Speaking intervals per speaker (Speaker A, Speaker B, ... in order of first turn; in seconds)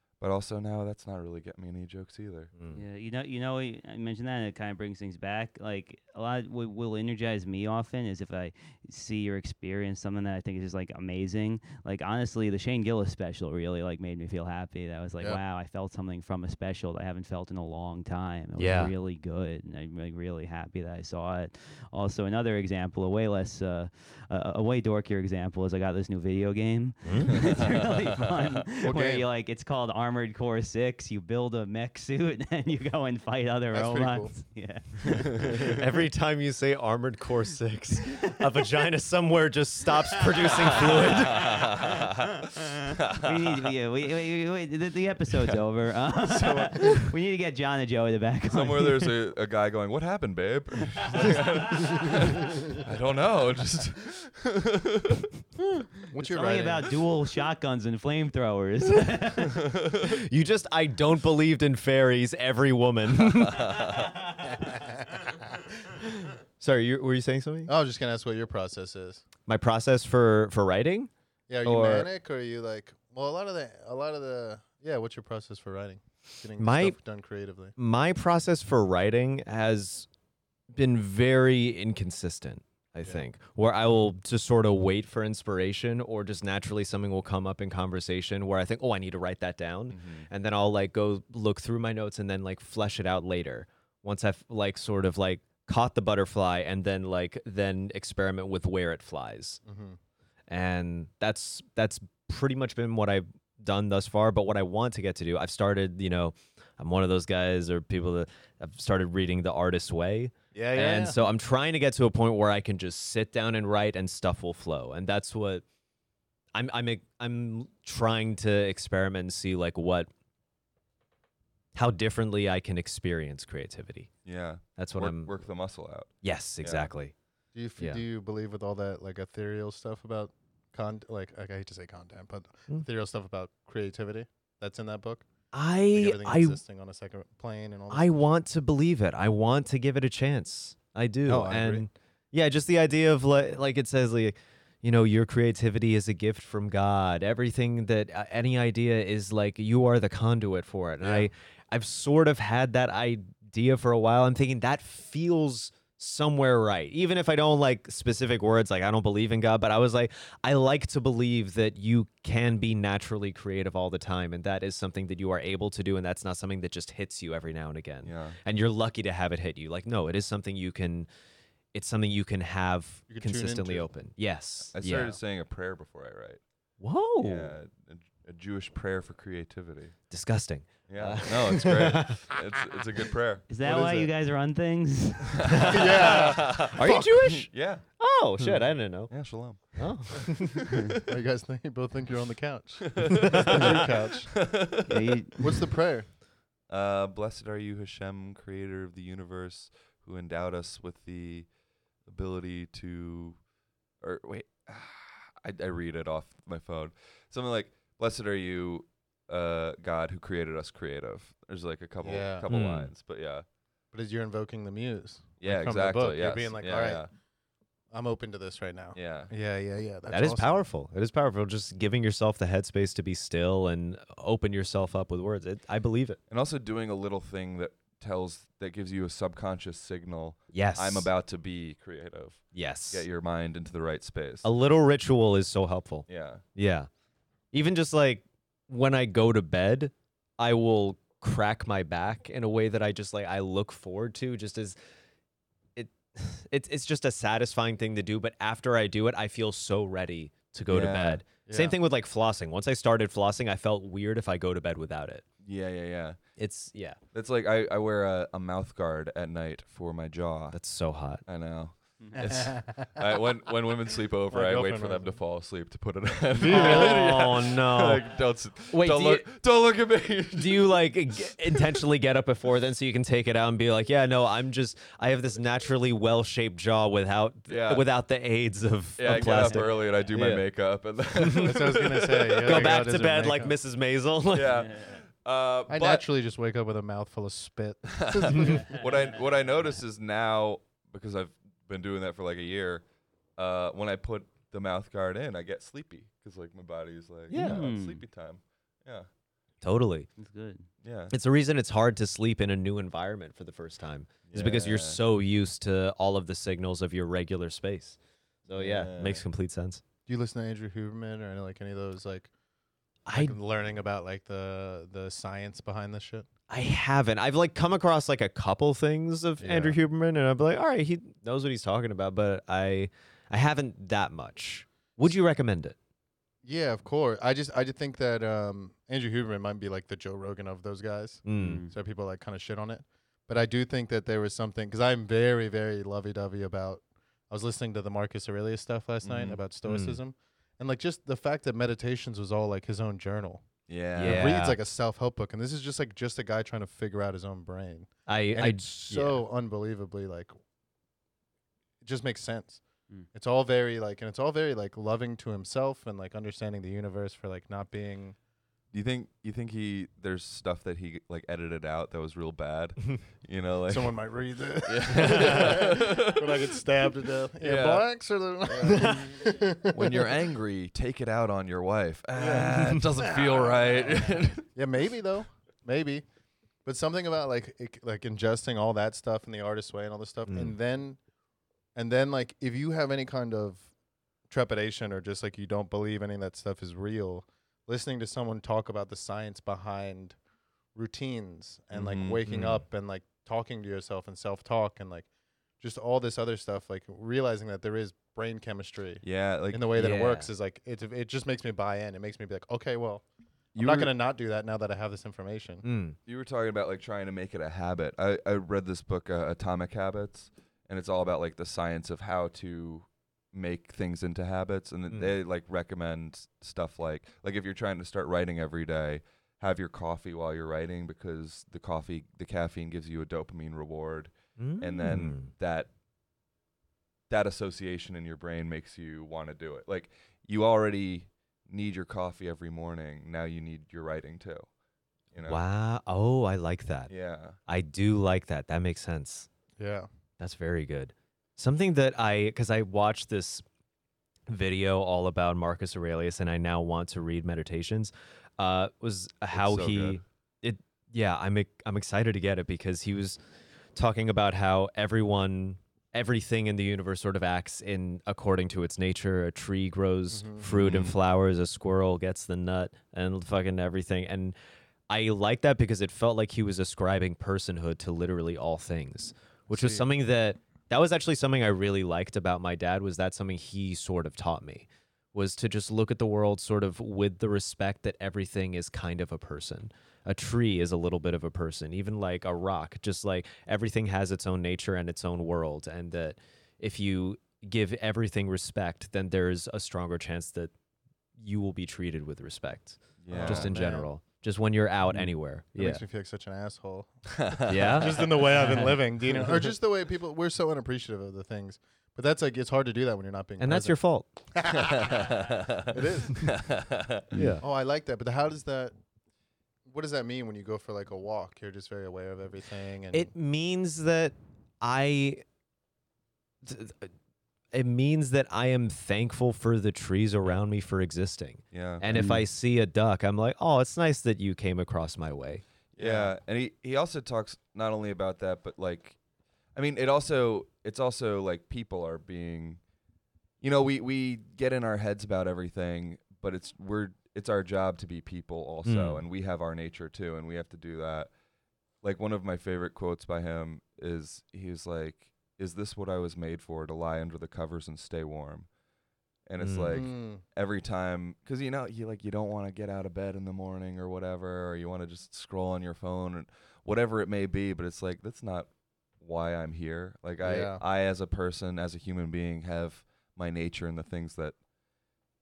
Speaker A: 0.2-2.5, 27.5-27.8, 35.4-35.7, 40.9-43.7, 45.3-45.6, 46.2-47.0, 48.5-55.3, 59.6-60.0, 63.2-64.2, 89.9-90.3, 124.2-126.9, 168.0-168.4, 174.7-176.4, 177.2-179.9, 180.9-183.8, 185.3-187.8, 189.1-191.0, 193.0-193.8, 194.3-195.2, 196.7-201.5, 202.1-203.4, 204.0-213.4, 215.4-217.1, 218.9-219.3, 226.3-234.5, 236.1-236.4, 250.7-251.2, 255.4-256.2, 257.1-260.6, 261.3-270.9, 271.4-271.8, 277.5-277.9, 279.0-282.8, 284.3-286.1, 287.9-292.8, 293.4-299.1, 300.8-301.1, 304.3-305.0, 308.5-309.2, 339.0-339.4, 343.7-344.5, 358.7-364.0, 364.6-366.5, 367.4-367.9, 368.5-368.9, 369.7-374.4, 391.7-392.2, 399.0-399.7, 403.6-403.9, 406.1-425.7, 427.1-434.5, 435.1-435.4, 436.9-437.4, 449.3-450.0, 460.5-460.9, 493.0-493.5, 497.1-498.2, 504.5-507.1, 521.5-521.9, 525.8-529.0, 529.5-532.6, 533.4-541.1, 541.8-548.5, 549.3-558.5, 559.0-564.4
Speaker B: 2.5-2.8, 18.6-18.9, 27.0-27.4, 35.7-41.6, 60.1-63.7, 66.6-67.7, 69.5-71.1, 71.6-72.1, 76.6-77.0, 77.8-80.1, 80.7-99.6, 100.5-115.6, 116.5-120.1, 121.8-124.1, 124.8-125.3, 126.2-127.1, 135.5-136.6, 137.9-171.1, 171.7-175.2, 176.8-177.5, 180.1-182.2, 185.4-189.1, 189.7-190.6, 212.5-212.9, 220.1-226.2, 230.5-231.1, 232.5-233.1, 234.4-236.9, 237.5-244.8, 245.8-255.3, 256.4-257.0, 260.5-261.2, 266.4-268.1, 268.7-269.3, 270.4-280.5, 281.2-281.5, 282.4-284.7, 297.3-297.6, 299.6-300.1, 301.1-309.8, 313.1-313.4, 316.5-325.8, 331.3-331.6, 339.7-340.0, 344.0-344.6, 348.1-349.2, 368.7-369.1, 380.3-380.5, 392.3-392.6, 399.8-400.3, 405.6-406.0, 424.4-425.3, 435.2-436.9, 437.5-439.3, 440.2-443.4, 444.3-453.2, 453.8-464.4, 464.9-490.5, 491.2-495.8, 497.5-499.4, 503.4-504.1, 507.1-507.4, 512.9-515.2, 516.4-516.9, 517.5-526.1, 538.6-539.0, 549.4-549.9
Speaker C: 2.7-35.8, 40.4-42.1, 43.1-49.1, 51.0-51.7, 56.2-59.7, 183.5-185.6, 194.9-195.6, 284.6-285.0, 288.5-288.9, 297.3-298.0, 300.2-300.7, 331.4-331.7, 498.4-498.7, 521.9-522.2
Speaker D: 28.8-29.3, 33.7-34.4, 56.0-56.9, 64.8-65.4, 67.7-69.2, 71.5-77.7, 99.7-100.0, 110.5-111.3, 127.5-135.3, 135.9-138.2, 141.3-141.9, 151.0-151.3, 173.1-173.9, 183.6-184.1, 185.7-187.1, 191.0-194.4, 195.4-196.1, 212.0-212.5, 213.9-217.1, 217.9-220.7, 251.5-251.8, 262.2-263.0, 264.3-265.2, 266.3-267.1, 281.4-283.5, 285.7-288.8, 310.1-312.3, 313.1-316.3, 319.4-319.8, 326.4-350.3, 351.8-352.6, 353.1-358.1, 363.7-370.1, 372.2-376.1, 376.6-381.0, 381.8-383.7, 384.3-390.2, 390.8-395.1, 395.6-403.0, 403.6-405.6, 439.6-439.9, 460.1-460.5, 469.5-469.9, 493.1-493.9, 495.5-503.8, 504.4-506.4, 507.4-508.7, 509.7-513.1, 549.7-550.2, 560.2-560.6